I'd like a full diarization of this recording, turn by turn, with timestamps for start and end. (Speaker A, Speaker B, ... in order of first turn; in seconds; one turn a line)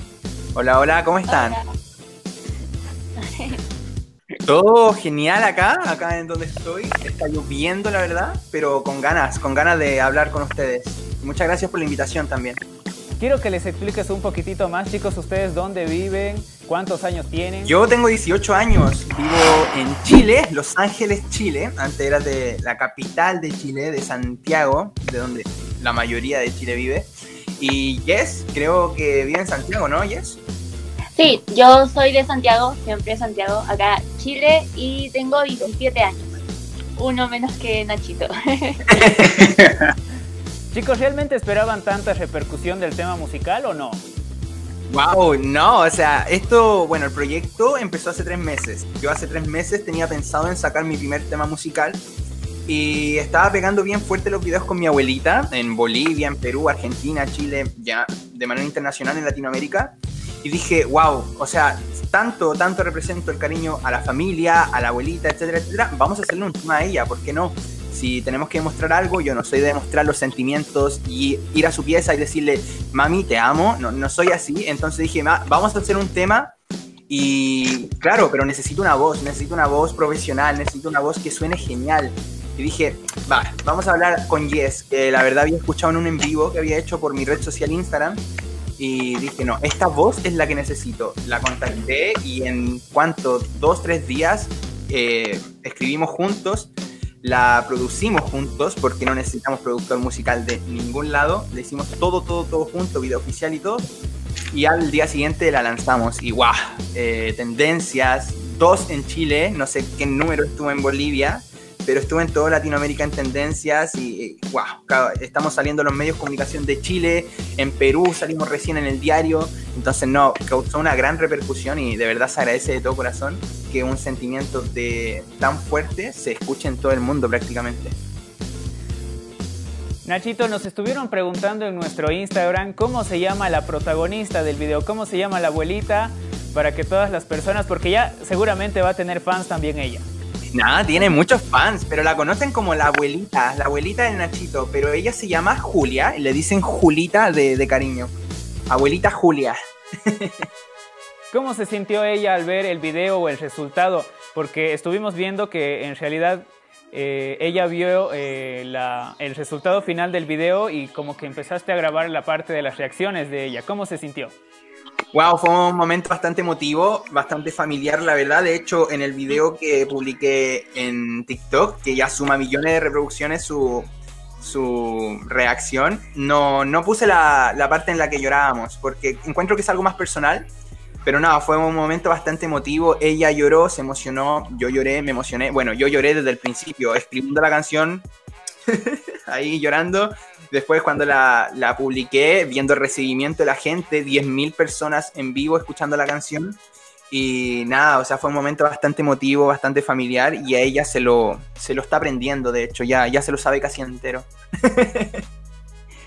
Speaker A: 0.5-1.6
Speaker B: 1.3-1.6
Speaker B: 3.2-3.6
Speaker A: 4.4-12.6
Speaker C: 13.2-17.7
Speaker A: 17.6-30.4
Speaker B: 31.1-36.4
Speaker B: 37.0-39.0
Speaker A: 38.9-39.9
Speaker C: 40.7-44.0
Speaker A: 44.9-52.0
Speaker A: 52.7-76.5
Speaker A: 77.1-88.2
Speaker A: 88.8-96.7
Speaker A: 97.2-103.9
Speaker A: 104.5-128.0
Speaker C: 130.0-140.1
Speaker A: 140.5-148.1
Speaker A: 148.7-150.5
Speaker C: 151.3-164.3
Speaker A: 165.1-180.5
Speaker A: 181.0-188.1
Speaker A: 188.7-196.6
Speaker A: 197.1-205.2